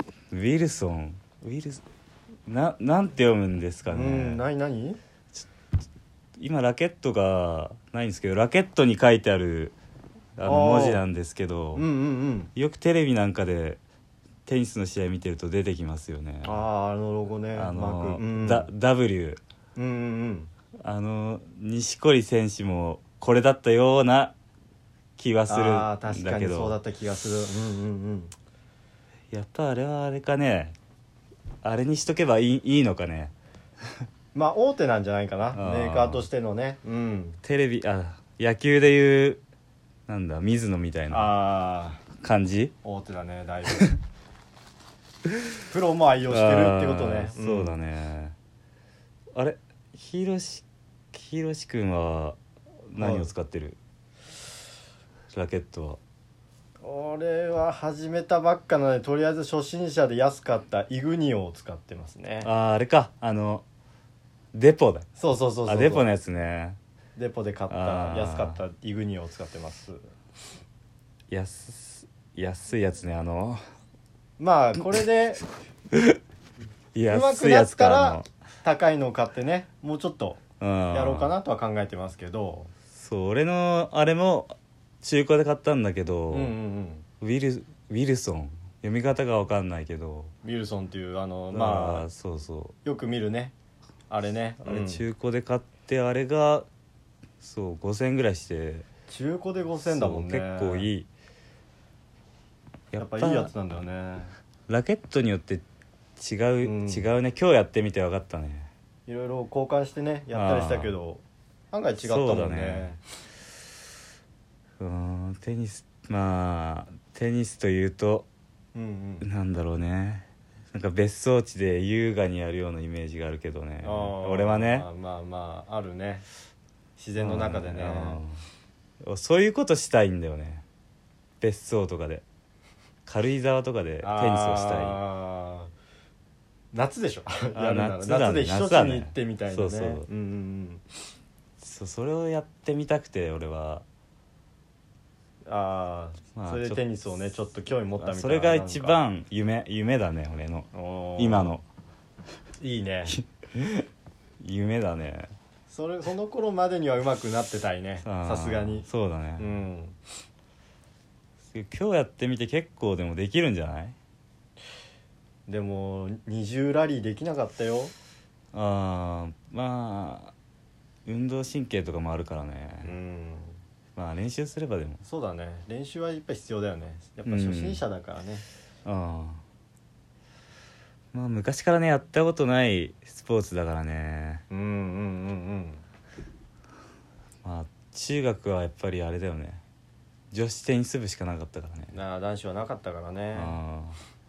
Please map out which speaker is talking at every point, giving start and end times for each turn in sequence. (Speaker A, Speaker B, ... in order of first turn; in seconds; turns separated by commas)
Speaker A: 0.3-1.8, Speaker A: 2.5-4.4, Speaker B: 3.9-5.0, Speaker A: 6.4-9.8, Speaker A: 10.4-11.9, Speaker B: 10.4-11.0, Speaker B: 11.7-12.5, Speaker A: 12.5-13.8, Speaker A: 14.4-16.6, Speaker B: 16.4-18.7, Speaker A: 17.5-19.4, Speaker B: 19.8-20.5, Speaker A: 20.8-24.3, Speaker A: 25.2-26.8, Speaker B: 25.5-28.3, Speaker A: 29.3-30.8, Speaker A: 31.6-33.3, Speaker B: 34.3-37.4, Speaker A: 35.5-36.2, Speaker A: 37.4-39.4, Speaker A: 40.1-41.3, Speaker B: 41.1-42.0, Speaker A: 42.2-42.7, Speaker B: 42.8-43.9, Speaker B: 45.7-47.8, Speaker A: 46.3-48.3, Speaker A: 49.3-53.8, Speaker B: 53.0-53.3, Speaker A: 55.3-56.0, Speaker B: 56.8-62.5, Speaker A: 62.4-63.6, Speaker A: 64.5-65.1, Speaker B: 65.2-66.1, Speaker A: 65.7-66.8, Speaker B: 67.2-70.0, Speaker A: 67.7-68.6, Speaker A: 71.3-73.6, Speaker B: 74.4-75.4, Speaker A: 75.9-76.2, Speaker A: 76.9-78.3, Speaker B: 77.1-82.7, Speaker A: 80.6-81.3, Speaker A: 82.9-86.5, Speaker B: 86.3-87.0, Speaker A: 87.2-90.3, Speaker B: 90.4-92.1, Speaker A: 91.5-92.8, Speaker B: 92.8-93.5, Speaker B: 94.1-95.0, Speaker A: 94.6-96.7, Speaker A: 97.4-98.9, Speaker B: 99.1-100.9, Speaker A: 99.8-101.1, Speaker A: 102.9-103.5, Speaker B: 103.0-104.3, Speaker A: 104.7-105.6, Speaker A: 106.2-108.7, Speaker B: 106.6-107.1, Speaker B: 109.1-113.0, Speaker A: 110.3-110.9, Speaker A: 112.0-112.9, Speaker A: 114.8-118.3, Speaker B: 118.7-119.2, Speaker A: 119.2-124.8, Speaker B: 123.8-126.2, Speaker B: 127.0-128.2, Speaker A: 127.2-128.4, Speaker A: 129.0-130.6, Speaker A: 131.4-132.2, Speaker A: 133.0-135.0, Speaker B: 134.0-135.7, Speaker B: 136.7-140.8, Speaker A: 137.5-140.1, Speaker A: 141.6-143.8, Speaker B: 145.4-149.0, Speaker A: 146.3-146.8, Speaker A: 148.0-151.6, Speaker B: 150.7-151.6, Speaker B: 152.6-153.2, Speaker A: 153.1-153.8, Speaker A: 154.4-155.3, Speaker B: 155.7-160.0, Speaker A: 158.0-159.6, Speaker A: 161.5-164.0, Speaker B: 165.5-167.9, Speaker A: 168.5-170.3, Speaker A: 171.1-172.9, Speaker B: 172.8-173.6, Speaker A: 173.9-175.0, Speaker B: 175.0-178.4, Speaker A: 177.2-177.8, Speaker A: 178.8-179.4, Speaker A: 181.1-184.4, Speaker B: 184.5-185.8, Speaker A: 187.4-189.6, Speaker A: 190.3-191.9, Speaker B: 191.9-193.6, Speaker A: 193.3-194.0